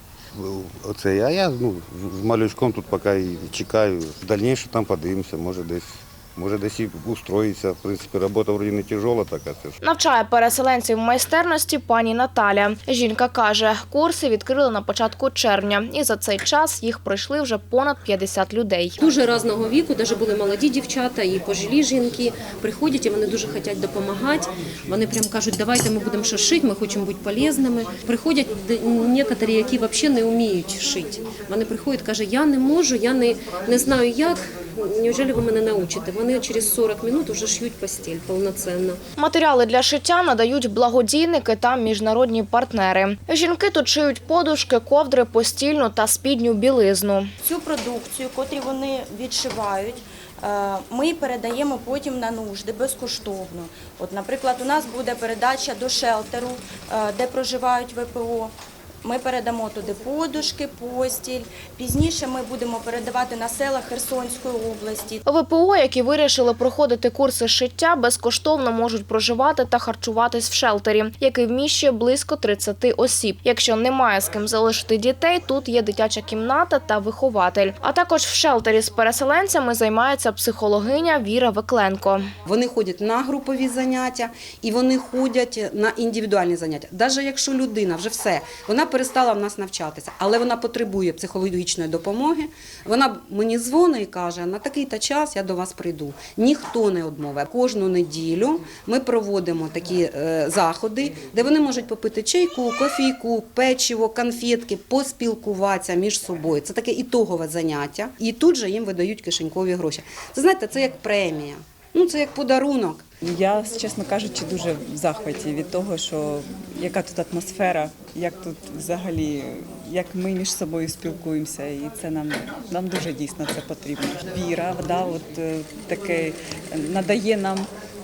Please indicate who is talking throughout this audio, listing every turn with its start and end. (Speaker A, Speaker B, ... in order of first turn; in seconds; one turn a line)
Speaker A: 0.4-9.8
Speaker B: 9.8-19.0
Speaker C: 19.0-39.0
Speaker B: 39.2-47.3
Speaker D: 47.4-65.2
Speaker B: 65.2-82.2
Speaker E: 82.5-113.0
Speaker F: 113.2-127.7